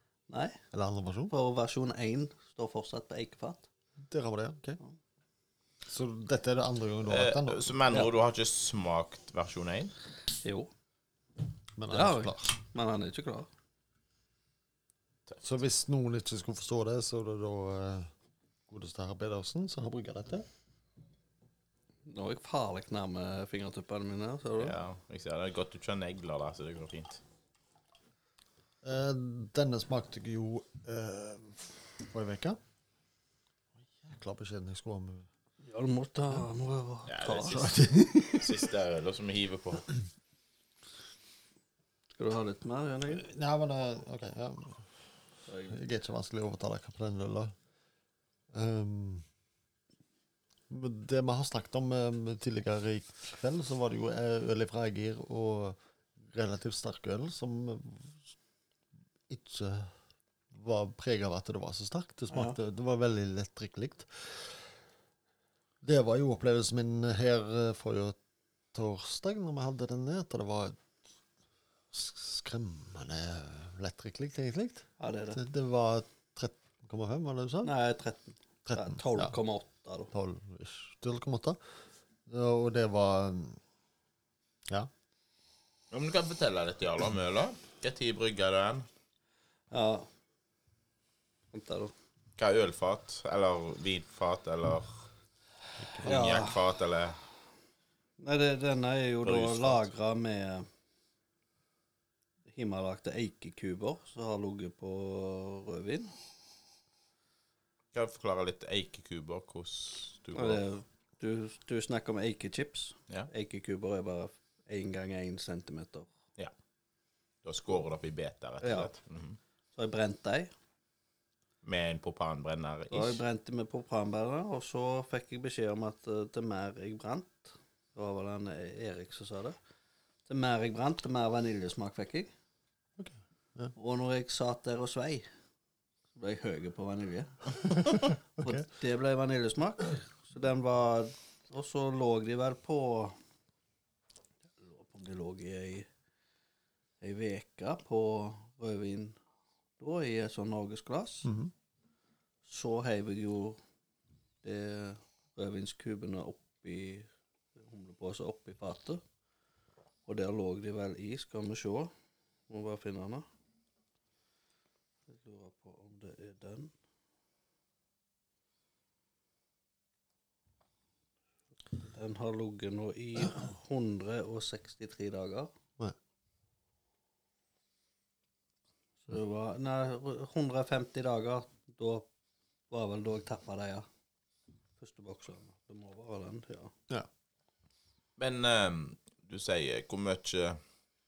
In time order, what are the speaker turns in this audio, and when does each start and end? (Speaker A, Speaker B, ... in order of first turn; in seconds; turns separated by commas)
Speaker A: 0.3-0.6, Speaker B: 0.7-1.3, Speaker A: 1.3-3.7, Speaker B: 4.0-4.8, Speaker B: 5.8-7.7, Speaker C: 7.1-9.9, Speaker A: 10.4-10.7, Speaker B: 11.8-12.5, Speaker A: 11.9-13.5, Speaker B: 15.4-18.1, Speaker B: 18.7-20.5, Speaker A: 22.1-24.8, Speaker C: 24.6-27.2, Speaker B: 28.8-32.6, Speaker B: 34.0-35.3, Speaker A: 35.6-37.6, Speaker C: 37.1-37.7, Speaker B: 37.5-38.7, Speaker C: 38.4-39.9, Speaker A: 42.2-43.2, Speaker B: 43.1-44.8, Speaker A: 45.5-45.7, Speaker B: 45.7-47.5, Speaker B: 48.5-49.2, Speaker B: 50.7-58.3, Speaker B: 59.3-59.9, Speaker B: 60.5-64.7, Speaker B: 65.8-68.2, Speaker B: 68.7-70.8, Speaker B: 71.9-77.7, Speaker A: 75.0-75.4, Speaker A: 77.6-80.1, Speaker B: 78.7-79.3, Speaker B: 80.1-81.6, Speaker B: 82.3-83.6, Speaker C: 85.9-88.8, Speaker A: 89.7-90.1, Speaker A: 91.5-91.9, Speaker C: 92.4-95.0, Speaker B: 95.8-96.2, Speaker C: 95.9-97.2, Speaker A: 96.0-96.6, Speaker A: 98.2-100.7, Speaker C: 99.2-99.8, Speaker A: 102.5-106.1, Speaker C: 107.9-110.6, Speaker A: 110.3-116.1, Speaker C: 117.4-119.4, Speaker A: 118.6-118.9, Speaker A: 119.8-120.5, Speaker C: 121.6-123.2, Speaker A: 122.9-129.6, Speaker A: 130.3-132.3, Speaker B: 133.0-133.7, Speaker A: 133.8-135.3, Speaker A: 136.2-143.2, Speaker B: 137.9-138.6, Speaker A: 144.6-145.9, Speaker A: 147.0-149.2, Speaker A: 149.8-151.3, Speaker B: 151.2-151.5, Speaker A: 152.4-153.6, Speaker A: 154.4-159.0, Speaker A: 160.1-161.9, Speaker A: 162.5-163.2, Speaker A: 165.1-166.7, Speaker A: 171.8-175.5, Speaker A: 179.1-182.1, Speaker A: 182.7-183.8, Speaker A: 184.8-186.7, Speaker C: 188.2-190.6